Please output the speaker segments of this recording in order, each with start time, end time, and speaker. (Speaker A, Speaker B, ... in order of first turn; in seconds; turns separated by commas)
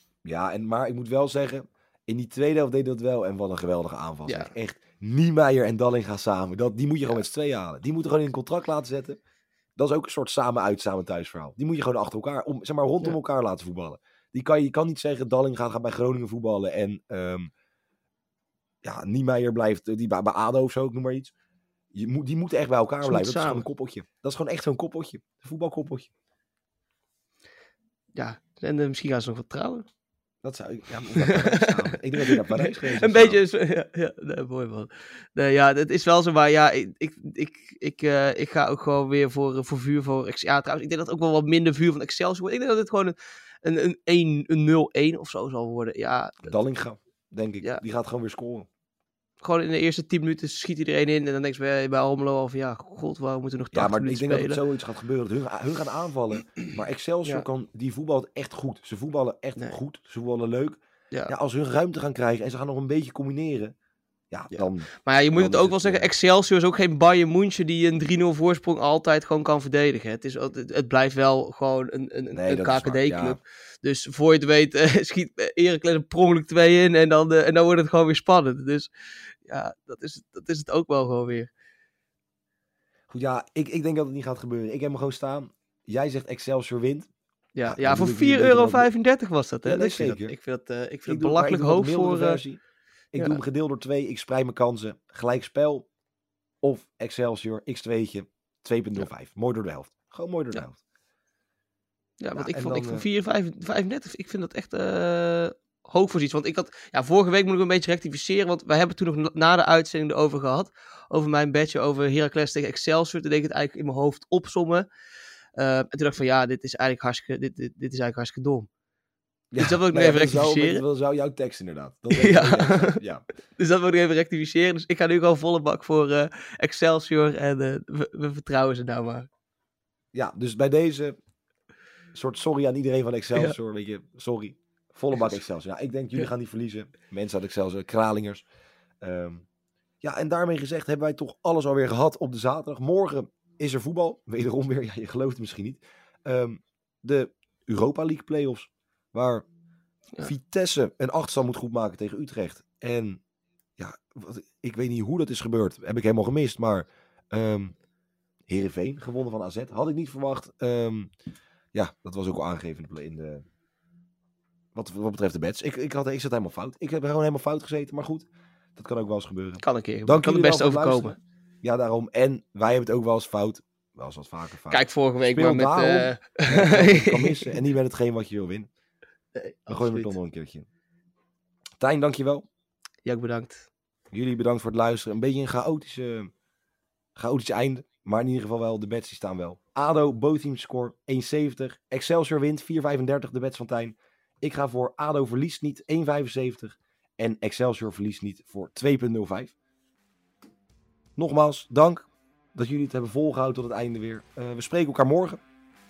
Speaker A: 0.2-9.2, Speaker B: 4.2-4.5, Speaker A: 9.8-17.5, Speaker A: 18.8-21.3, Speaker A: 21.9-26.1, Speaker B: 23.0-23.6, Speaker B: 28.1-29.9, Speaker A: 30.4-33.4, Speaker B: 31.1-46.5, Speaker A: 46.4-48.7, Speaker B: 49.4-54.6, Speaker A: 53.7-63.7, Speaker A: 64.3-66.1, Speaker B: 64.5-81.5, Speaker A: 72.3-73.4, Speaker A: 83.1-87.1, Speaker B: 87.5-92.4, Speaker A: 87.7-88.9, Speaker A: 89.6-90.3, Speaker A: 91.0-92.6, Speaker A: 93.1-95.9, Speaker A: 96.6-100.8, Speaker B: 102.2-114.9, Speaker A: 102.3-103.0, Speaker B: 115.5-118.7, Speaker A: 119.5-123.2, Speaker B: 119.6-120.8, Speaker B: 122.1-123.0, Speaker B: 123.6-129.3, Speaker A: 130.1-131.2, Speaker A: 132.1-138.4, Speaker A: 139.0-139.4, Speaker A: 140.0-149.4, Speaker A: 150.2-153.2, Speaker A: 153.8-157.7, Speaker A: 158.5-161.1, Speaker A: 161.7-163.4, Speaker A: 164.7-178.7, Speaker B: 169.6-171.2, Speaker B: 174.7-177.5, Speaker B: 179.3-180.1, Speaker A: 179.7-180.7, Speaker A: 181.8-182.4, Speaker B: 183.0-183.7, Speaker A: 184.1-186.3, Speaker A: 187.2-199.5, Speaker A: 201.2-205.4